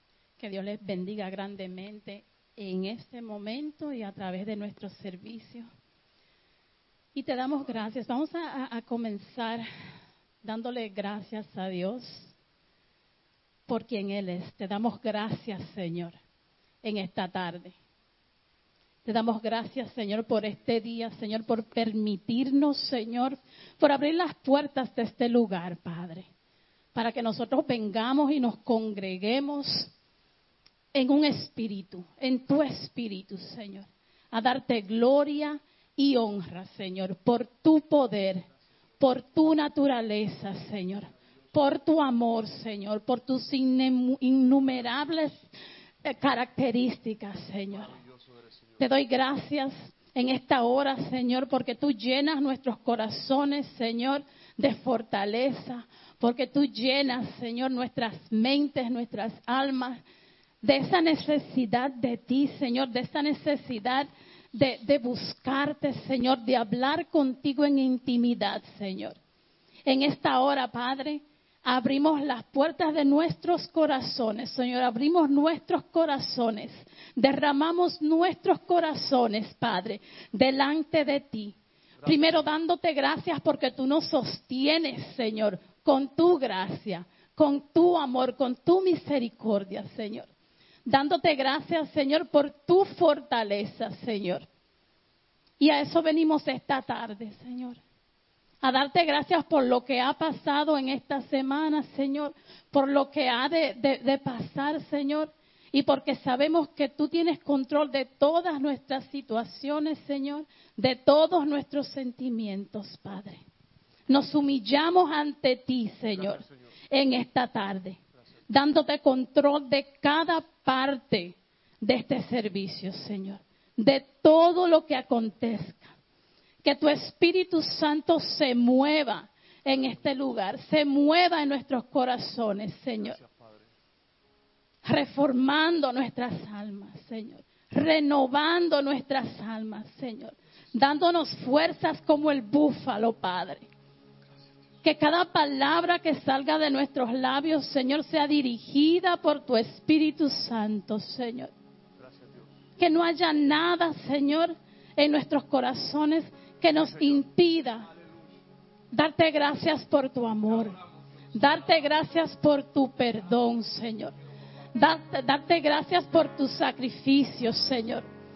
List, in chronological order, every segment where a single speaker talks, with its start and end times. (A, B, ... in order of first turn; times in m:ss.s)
0:00.4-0:05.7 A
0:07.1-0:09.6 A
0:10.4-0:12.3 A
0:13.7-0:16.2 A
0:16.8-0:17.8 A
0:19.0-0:26.3 A
0:26.9-0:29.9 A
0:30.9-0:38.5 A
0:39.0-0:45.5 A
0:46.0-0:48.0 A
0:48.8-1:00.0 A
1:00.6-1:09.2 A
1:09.8-1:30.3 A
1:30.8-1:34.4 A
1:35.6-1:37.8 A
1:38.6-1:53.4 A
1:54.1-1:58.0 A
1:58.5-2:05.9 A
2:06.6-2:13.2 A
2:14.8-2:23.7 A
2:24.8-2:31.5 A
2:32.8-2:37.9 A
2:38.9-2:40.8 A
2:41.3-2:44.1 A
2:44.7-2:48.0 A